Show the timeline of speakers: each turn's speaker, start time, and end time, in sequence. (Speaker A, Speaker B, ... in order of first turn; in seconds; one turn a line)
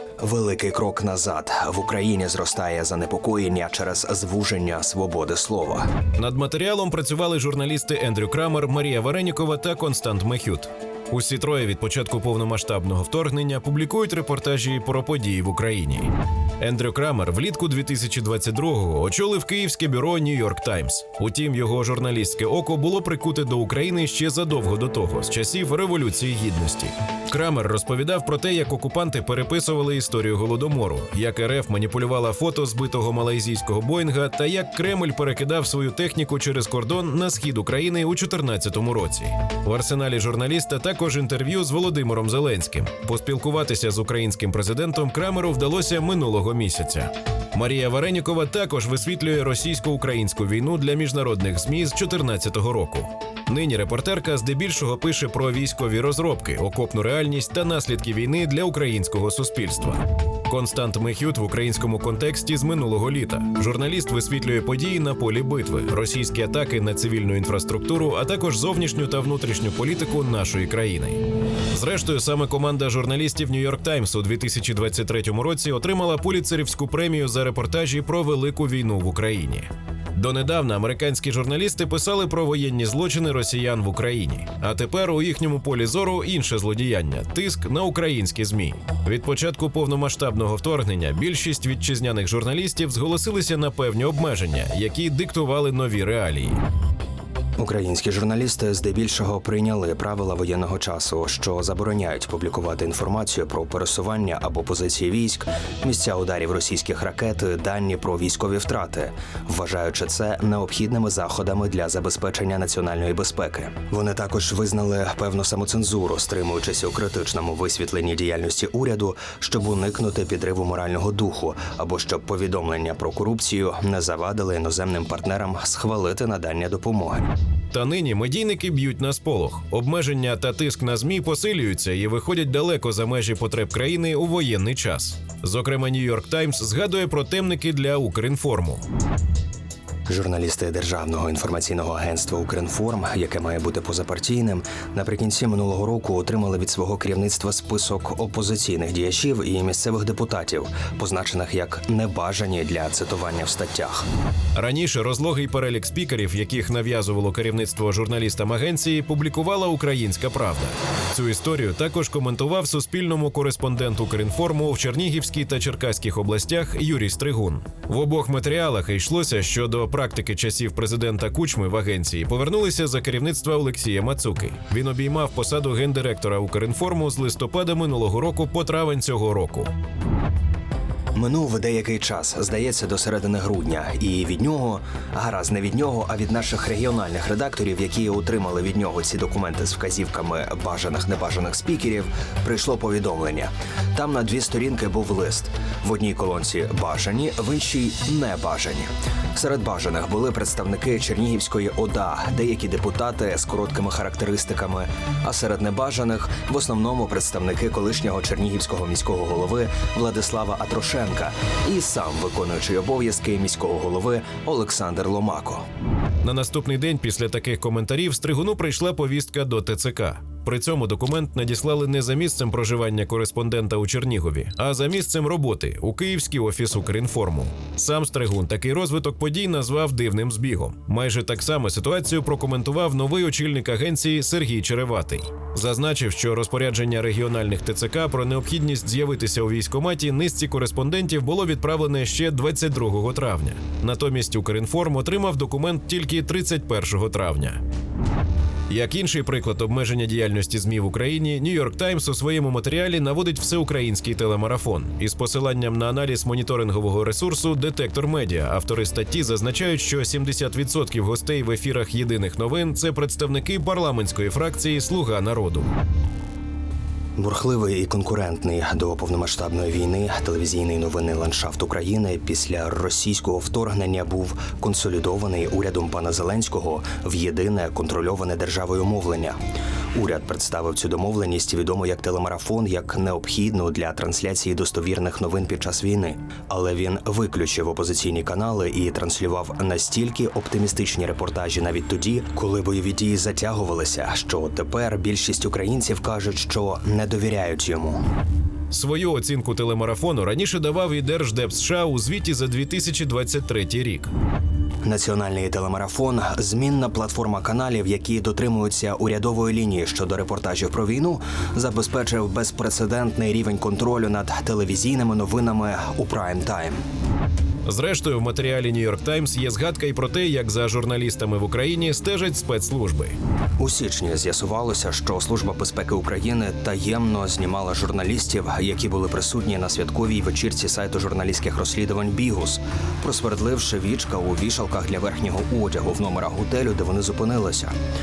Speaker A: 0.2-5.9
Speaker B: 6.2-71.2
Speaker B: 71.7-96.6
Speaker A: 97.6-127.3
Speaker B: 127.7-138.8
Speaker A: 140.1-154.0
Speaker B: 154.5-179.7
Speaker A: 181.1-215.6
Speaker B: 216.2-247.6
Speaker B: 248.7-265.7
Speaker A: 267.2-279.4
Speaker A: 279.9-298.0
Speaker B: 298.7-304.1
Speaker A: 304.8-316.8
Speaker B: 317.6-323.1
Speaker A: 323.6-337.7